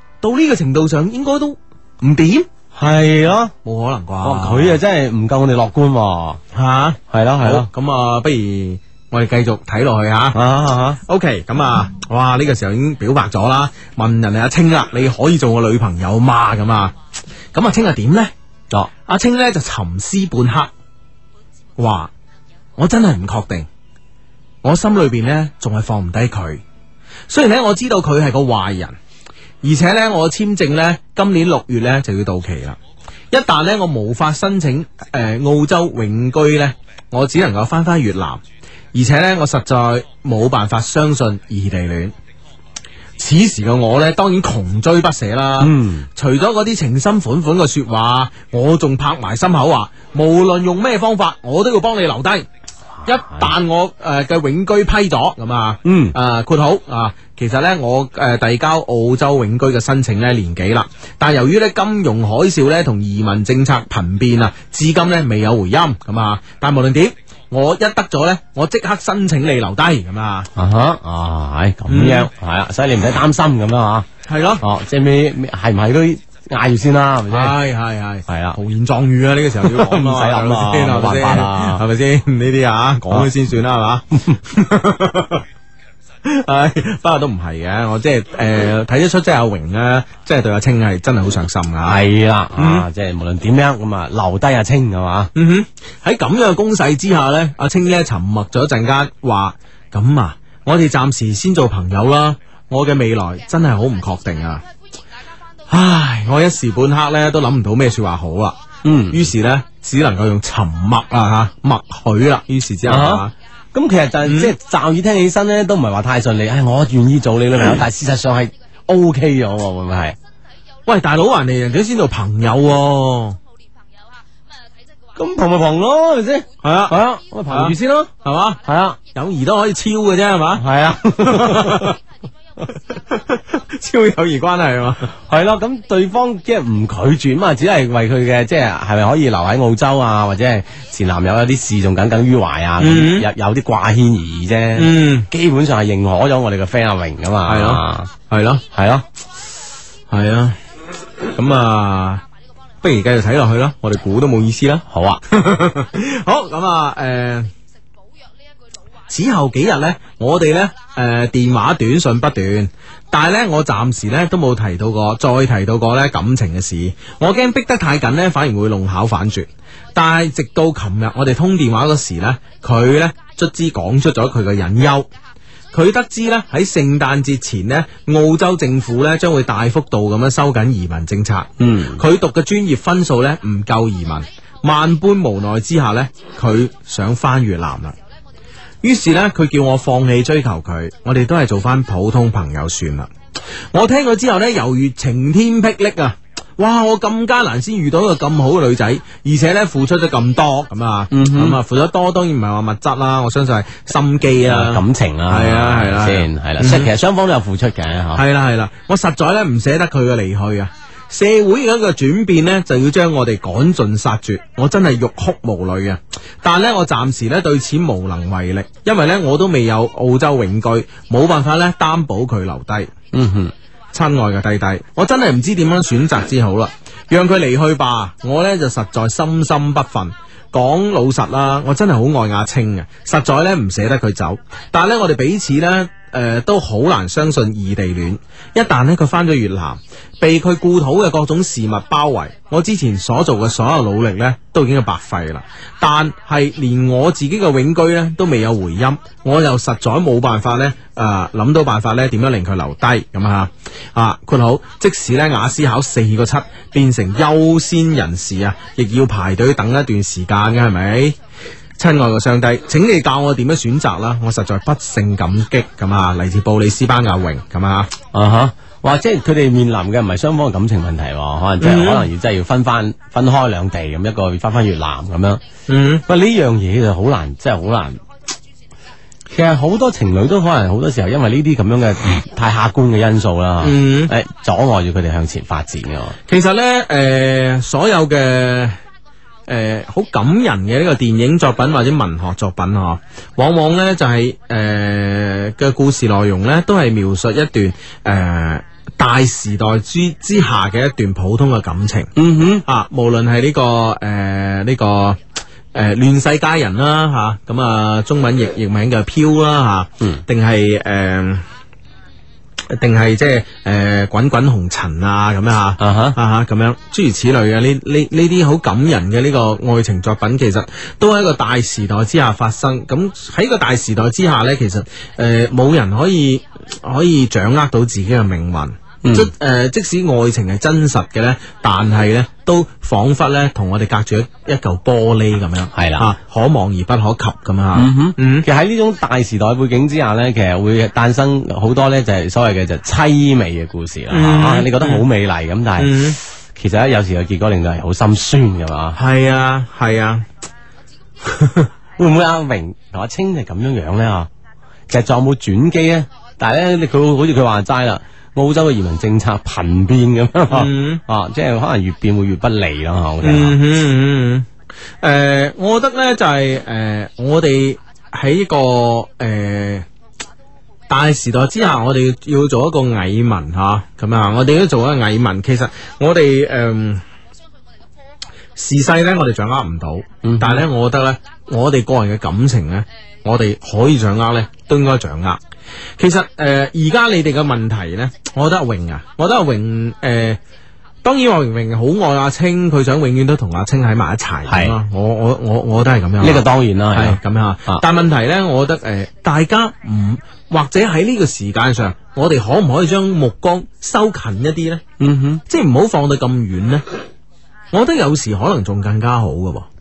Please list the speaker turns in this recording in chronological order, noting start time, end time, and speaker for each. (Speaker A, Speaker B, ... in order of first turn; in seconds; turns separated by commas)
Speaker A: 0.2-2.5, Speaker B: 2.8-3.5, Speaker A: 3.6-4.8, Speaker B: 4.2-6.4, Speaker A: 6.5-10.4, Speaker B: 7.1-7.7, Speaker B: 10.3-11.0, Speaker A: 11.1-16.9, Speaker A: 17.5-18.3, Speaker A: 19.1-20.7, Speaker A: 21.8-22.1, Speaker A: 22.8-23.7, Speaker A: 24.6-26.6, Speaker A: 27.3-29.0, Speaker A: 29.6-32.8, Speaker A: 33.3-38.4, Speaker A: 38.9-42.1, Speaker A: 43.2-52.5, Speaker B: 45.6-46.1, Speaker A: 53.0-70.5, Speaker B: 53.1-53.5, Speaker B: 55.9-56.1, Speaker B: 70.5-74.1, Speaker A: 71.9-72.3, Speaker A: 74.3-74.6, Speaker B: 74.6-77.5, Speaker A: 77.3-85.4, Speaker B: 78.3-78.6, Speaker B: 79.6-81.8, Speaker A: 86.2-92.0, Speaker B: 91.9-95.3, Speaker A: 92.6-92.9, Speaker A: 95.3-104.6, Speaker A: 105.7-108.6, Speaker B: 108.8-109.3, Speaker A: 109.1-113.3, Speaker B: 112.9-120.2, Speaker A: 114.2-114.5, Speaker A: 120.9-123.4, Speaker B: 125.2-128.1, Speaker A: 126.6-128.6, Speaker B: 128.6-129.0, Speaker A: 129.1-130.7, Speaker B: 130.6-131.9, Speaker A: 131.2-131.9, Speaker A: 133.3-135.1, Speaker B: 135.3-148.1, Speaker A: 142.8-143.3, Speaker A: 144.8-145.3, Speaker A: 147.5-148.6, Speaker B: 148.7-149.1, Speaker A: 150.1-150.6, Speaker A: 151.3-152.2, Speaker A: 152.8-157.5, Speaker B: 154.9-155.2, Speaker A: 159.1-175.1, Speaker A: 175.7-187.9, Speaker B: 181.6-182.0, Speaker A: 188.8-193.1, Speaker A: 193.7-206.9, Speaker B: 201.1-201.6, Speaker B: 204.4-208.2, Speaker A: 208.2-222.9, Speaker B: 223.1-223.5, Speaker A: 223.9-261.2, Speaker A: 261.8-267.9, Speaker B: 268.1-275.4, Speaker A: 271.6-272.1, Speaker A: 275.7-276.0, Speaker B: 276.1-278.0, Speaker B: 279.3-286.2, Speaker A: 283.6-284.1, Speaker A: 286.3-288.8, Speaker A: 289.5-302.1, Speaker B: 302.2-302.6, Speaker A: 302.7-305.2, Speaker A: 305.7-311.4, Speaker A: 312.7-338.5, Speaker B: 315.8-316.2, Speaker B: 329.0-329.3, Speaker B: 335.7-336.1, Speaker B: 337.8-346.0, Speaker A: 344.1-345.1, Speaker A: 345.8-346.2, Speaker B: 346.6-349.0, Speaker A: 349.0-350.2, Speaker A: 351.3-351.7, Speaker B: 352.0-354.3, Speaker B: 354.9-363.6, Speaker A: 360.5-361.0, Speaker A: 363.2-364.5, Speaker A: 365.0-369.9, Speaker A: 370.9-377.0, Speaker A: 378.6-385.4, Speaker B: 380.2-380.6, Speaker A: 386.0-390.4, Speaker A: 391.0-404.8, Speaker B: 394.5-394.8, Speaker B: 396.2-397.8, Speaker B: 405.0-405.4, Speaker A: 405.5-406.9, Speaker A: 407.7-409.7